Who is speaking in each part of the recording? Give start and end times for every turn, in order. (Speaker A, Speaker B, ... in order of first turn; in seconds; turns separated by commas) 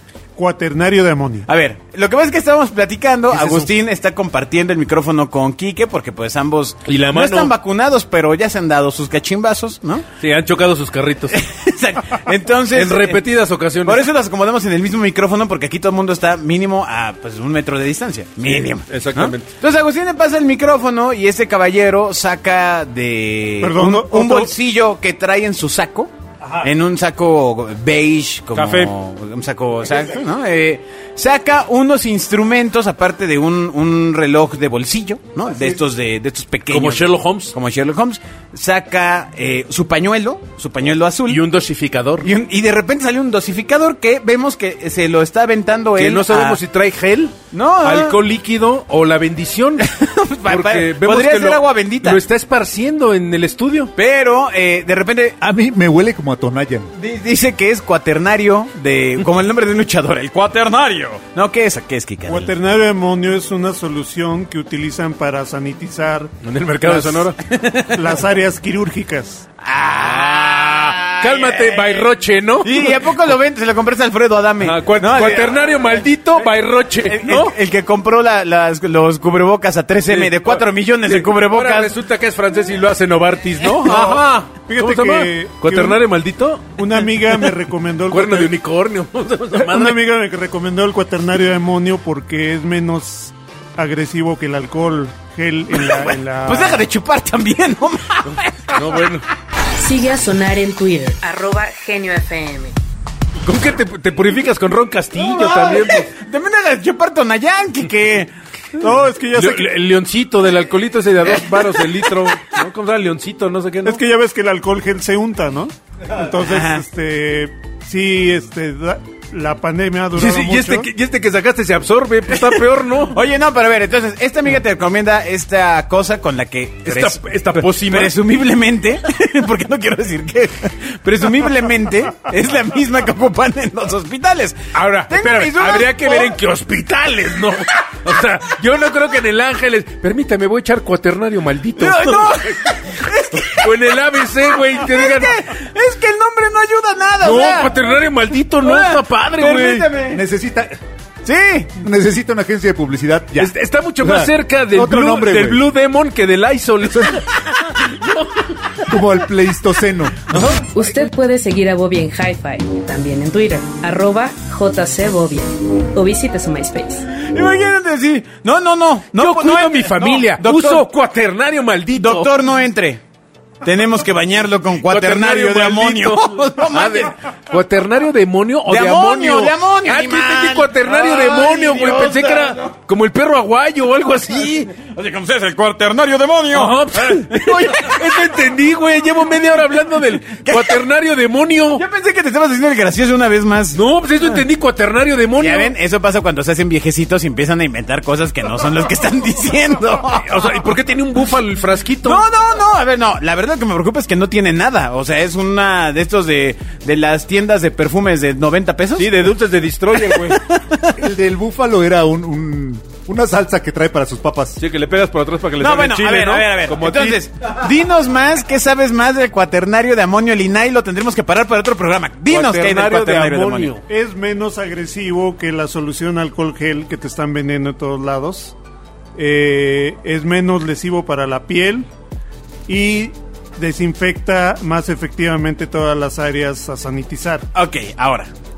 Speaker A: 0.3-1.5, Speaker B: 1.5-10.1, Speaker C: 3.3-3.7, Speaker D: 6.9-7.5, Speaker D: 10.2-11.4, Speaker B: 11.3-13.2, Speaker D: 12.7-14.1, Speaker B: 13.9-41.4, Speaker D: 18.4-19.5, Speaker A: 23.6-24.5, Speaker D: 28.5-28.9, Speaker D: 36.7-37.5, Speaker D: 41.3-42.3, Speaker B: 42.2-46.6, Speaker D: 46.0-49.9, Speaker B: 47.5-48.2, Speaker B: 49.8-52.2, Speaker D: 50.5-53.9, Speaker B: 54.0-55.4, Speaker C: 55.4-56.9, Speaker B: 57.0-62.5, Speaker A: 62.2-66.4, Speaker D: 66.4-67.4, Speaker B: 66.8-68.1, Speaker A: 67.9-69.5, Speaker B: 69.6-72.1, Speaker D: 70.0-73.2, Speaker B: 72.6-75.7, Speaker D: 74.6-77.6, Speaker B: 77.0-81.9, Speaker D: 80.1-86.8, Speaker B: 83.8-84.2, Speaker A: 83.9-86.0, Speaker A: 86.8-88.6, Speaker D: 88.1-90.0, Speaker A: 89.5-96.8, Speaker B: 96.0-99.1, Speaker D: 98.7-99.3, Speaker E: 99.8-102.8, Speaker D: 103.4-106.1, Speaker B: 105.2-108.3, Speaker A: 108.8-109.7, Speaker D: 109.3-114.0, Speaker A: 113.8-120.9, Speaker B: 116.4-116.8, Speaker D: 120.2-123.2, Speaker B: 123.1-136.4, Speaker D: 126.8-128.2, Speaker D: 134.7-142.8, Speaker B: 141.8-144.0, Speaker D: 143.3-145.3, Speaker B: 144.7-147.7, Speaker D: 147.2-149.9, Speaker B: 148.6-150.2, Speaker C: 150.1-150.8, Speaker B: 151.2-151.7, Speaker C: 151.8-155.6, Speaker D: 153.4-158.4, Speaker C: 158.8-160.4, Speaker D: 160.3-160.6, Speaker E: 160.7-167.1, Speaker B: 167.2-170.8, Speaker D: 169.2-172.3, Speaker B: 172.0-173.0, Speaker B: 173.6-177.1, Speaker D: 174.8-184.7, Speaker B: 178.7-182.7, Speaker B: 184.7-188.3, Speaker D: 186.5-191.8, Speaker B: 190.4-190.8, Speaker B: 191.8-193.8, Speaker D: 193.7-195.7, Speaker B: 195.4-200.3, Speaker D: 200.2-202.2, Speaker B: 202.0-209.2, Speaker D: 209.0-210.4, Speaker B: 210.0-210.9, Speaker C: 211.0-214.6, Speaker D: 214.6-217.2, Speaker B: 215.6-223.7, Speaker D: 222.3-223.8, Speaker A: 223.9-228.6, Speaker A: 229.2-231.9, Speaker A: 232.7-237.5, Speaker B: 237.5-238.3